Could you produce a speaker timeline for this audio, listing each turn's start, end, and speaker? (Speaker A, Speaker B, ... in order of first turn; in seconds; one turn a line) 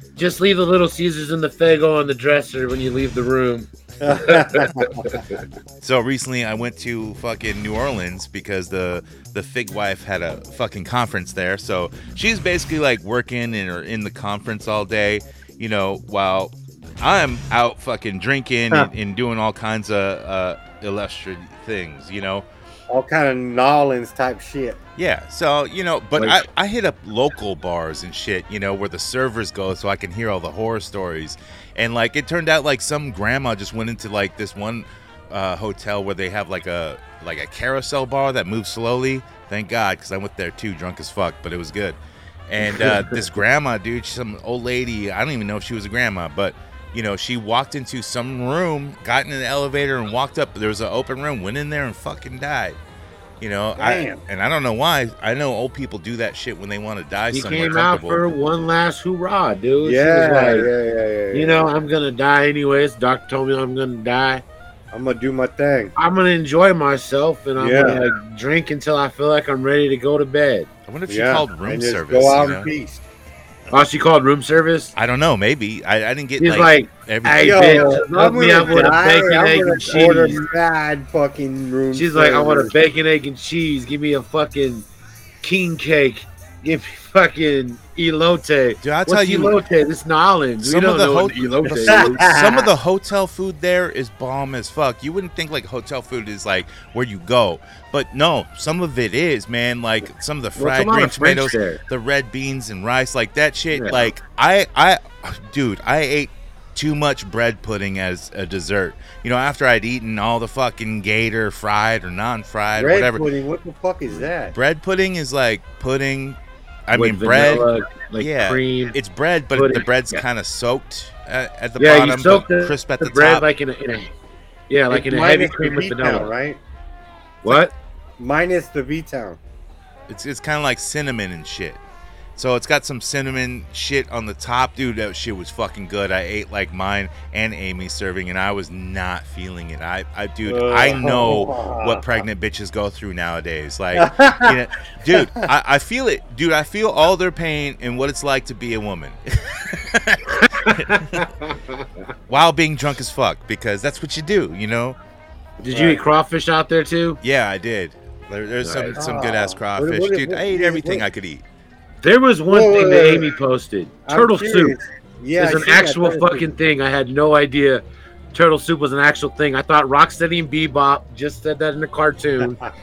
Speaker A: 0.2-5.1
Speaker B: 4.0-5.0
Speaker C: 5.8-22.4
Speaker B: 22.9-24.8
Speaker C: 25.0-52.8
Speaker A: 42.7-43.2
Speaker C: 53.4-58.2
Speaker B: 53.8-54.2
Speaker A: 57.3-60.7
Speaker B: 59.8-61.7
Speaker A: 61.3-64.4
Speaker B: 64.9-65.9
Speaker A: 66.0-70.7
Speaker B: 67.6-68.0
Speaker C: 70.9-72.7
Speaker B: 71.1-73.0
Speaker A: 73.7-74.9
Speaker C: 75.0-77.9
Speaker A: 76.4-80.4
Speaker B: 77.4-82.7
Speaker A: 81.9-84.8
Speaker A: 85.4-92.3
Speaker C: 88.8-89.6
Speaker C: 90.6-113.3
Speaker B: 91.7-92.7
Speaker A: 100.6-101.8
Speaker A: 103.7-104.1
Speaker B: 112.8-114.5
Speaker C: 114.5-123.5
Speaker A: 116.9-119.0
Speaker A: 119.5-120.2
Speaker A: 121.8-124.1
Speaker A: 124.7-126.3
Speaker B: 124.9-126.6
Speaker A: 127.4-127.7
Speaker B: 128.2-129.4
Speaker C: 130.1-131.8
Speaker C: 132.4-151.3
Speaker B: 140.5-142.1
Speaker B: 143.9-144.5
Speaker B: 145.1-145.4
Speaker A: 151.1-151.5
Speaker C: 152.3-155.0
Speaker A: 155.6-157.2
Speaker B: 155.7-156.0
Speaker C: 157.2-161.4
Speaker A: 158.6-158.9
Speaker B: 158.9-161.1
Speaker A: 162.0-164.8
Speaker B: 162.5-163.3
Speaker B: 164.1-166.5
Speaker A: 165.4-167.8
Speaker A: 168.3-172.6